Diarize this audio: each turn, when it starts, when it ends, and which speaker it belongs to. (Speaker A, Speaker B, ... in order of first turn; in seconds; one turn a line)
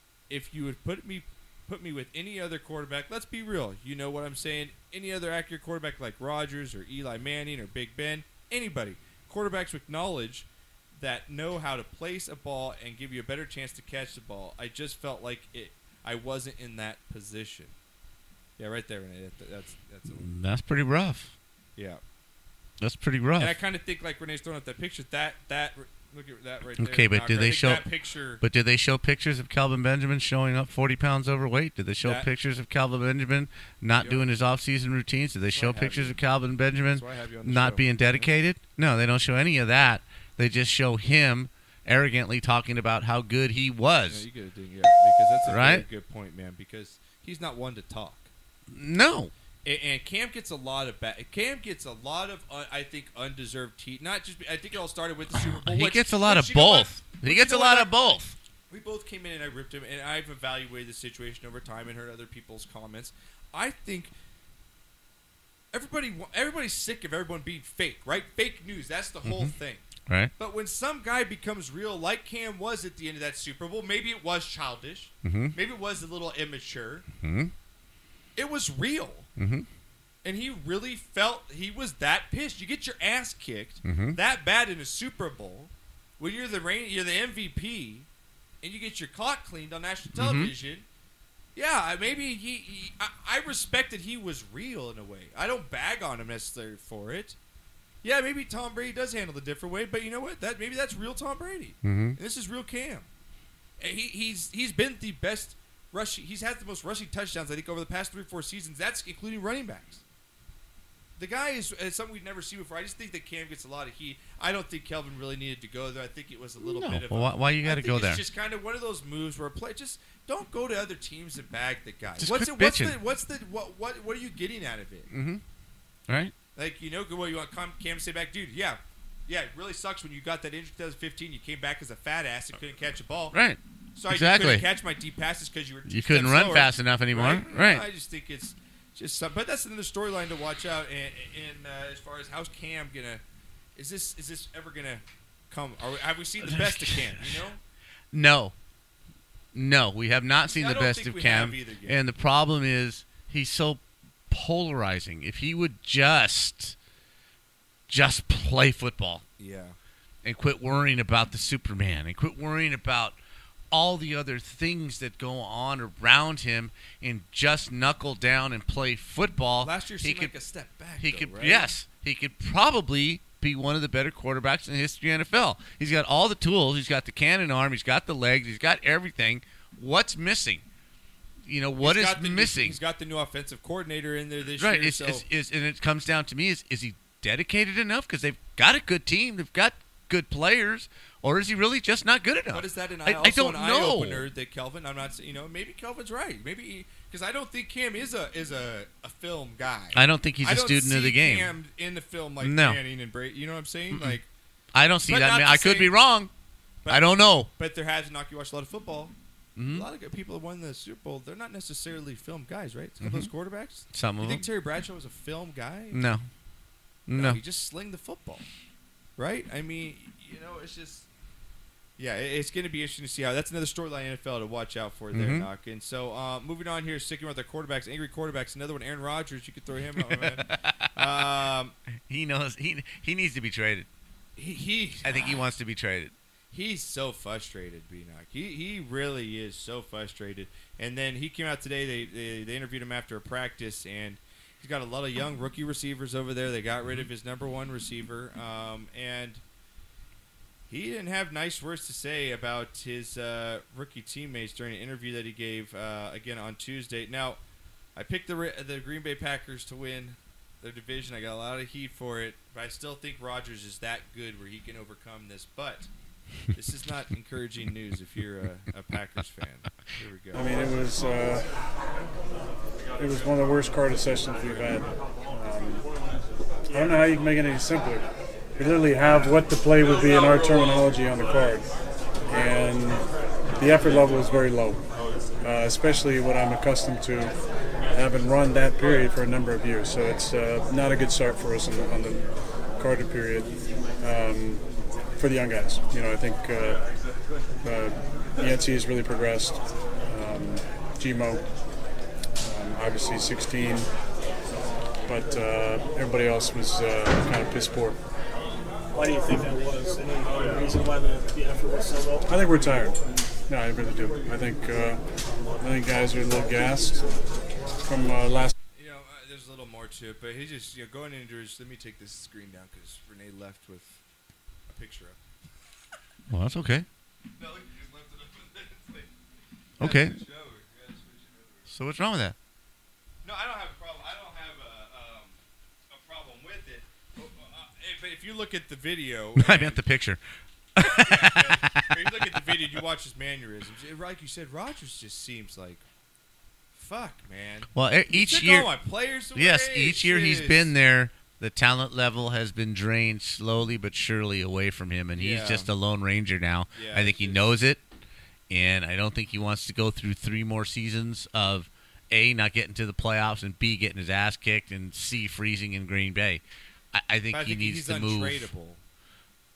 Speaker A: 0.3-17.7
Speaker A: 18.6-20.3
Speaker B: 20.2-21.4
Speaker B: 22.8-23.6
Speaker A: 23.4-28.4
Speaker B: 26.8-27.9
Speaker B: 28.4-44.2
Speaker A: 32.0-32.3
Speaker A: 35.5-36.2
Speaker A: 36.9-38.3
Speaker A: 44.1-48.3
Speaker B: 45.5-45.9
Speaker B: 48.7-49.3
Speaker A: 49.6-58.1
Speaker B: 55.4-58.4
Speaker A: 58.7-64.1
Speaker A: 65.7-77.1
Speaker B: 69.2-69.5
Speaker B: 70.1-70.3
Speaker B: 75.2-75.6
Speaker B: 77.2-77.5
Speaker A: 78.4-79.3
Speaker B: 79.4-79.7
Speaker A: 80.2-88.1
Speaker B: 83.8-84.2
Speaker A: 88.6-90.9
Speaker B: 90.1-90.5
Speaker A: 91.5-97.4
Speaker A: 98.0-103.1
Speaker B: 101.8-102.2
Speaker A: 103.8-110.0
Speaker A: 111.2-125.1
Speaker B: 116.6-118.2
Speaker B: 122.2-123.0
Speaker B: 125.1-125.4
Speaker B: 126.1-126.3
Speaker A: 126.5-133.4
Speaker B: 133.3-134.7
Speaker A: 133.9-143.2
Speaker B: 135.9-137.9
Speaker A: 143.8-147.6
Speaker B: 146.5-147.3
Speaker B: 148.1-148.5
Speaker B: 149.5-156.8
Speaker A: 150.6-152.0
Speaker B: 157.9-159.2
Speaker A: 159.4-159.8
Speaker B: 160.2-163.2
Speaker B: 163.7-170.3
Speaker A: 169.6-171.7
Speaker B: 171.0-180.7
Speaker B: 181.4-182.8
Speaker A: 181.8-185.2
Speaker B: 184.6-194.3
Speaker A: 192.5-204.3
Speaker B: 199.9-201.5
Speaker B: 202.4-202.8
Speaker B: 203.9-204.2
Speaker B: 204.7-206.3
Speaker A: 205.1-205.9
Speaker A: 206.8-209.1
Speaker B: 206.9-207.5
Speaker B: 209.6-209.9
Speaker A: 209.7-216.0
Speaker B: 213.0-213.3
Speaker B: 213.9-214.4
Speaker B: 215.9-216.3
Speaker B: 217.1-217.4
Speaker A: 217.1-218.5
Speaker A: 219.2-221.1
Speaker A: 222.0-231.7
Speaker B: 225.1-225.5
Speaker B: 230.0-231.3
Speaker B: 232.1-233.9
Speaker A: 234.4-235.1
Speaker B: 235.0-236.1
Speaker A: 236.5-249.4
Speaker A: 250.7-257.4
Speaker A: 258.0-265.9
Speaker A: 266.5-270.6
Speaker C: 270.4-271.4
Speaker C: 273.0-275.8
Speaker C: 276.7-278.1
Speaker C: 278.6-281.7
Speaker C: 282.3-284.9
Speaker C: 285.4-287.3
Speaker C: 287.9-292.2
Speaker C: 292.8-294.6
Speaker C: 295.2-296.9
Speaker C: 297.6-301.4
Speaker C: 302.4-303.9
Speaker C: 305.1-308.0
Speaker D: 308.9-312.3
Speaker C: 312.3-315.0
Speaker C: 315.6-317.1
Speaker C: 317.8-318.5
Speaker A: 318.7-324.0
Speaker A: 324.7-325.2
Speaker B: 326.3-326.9
Speaker A: 327.4-329.1
Speaker A: 329.8-331.7
Speaker B: 329.8-330.2
Speaker B: 331.7-332.4
Speaker A: 333.2-335.4
Speaker A: 335.9-339.8
Speaker B: 339.4-340.2
Speaker B: 340.8-342.7
Speaker A: 340.8-345.8
Speaker A: 346.7-350.7
Speaker B: 347.7-348.7
Speaker B: 349.4-357.8
Speaker A: 355.2-355.7
Speaker A: 356.7-357.4
Speaker B: 358.5-366.4
Speaker B: 366.9-368.5
Speaker A: 367.3-368.8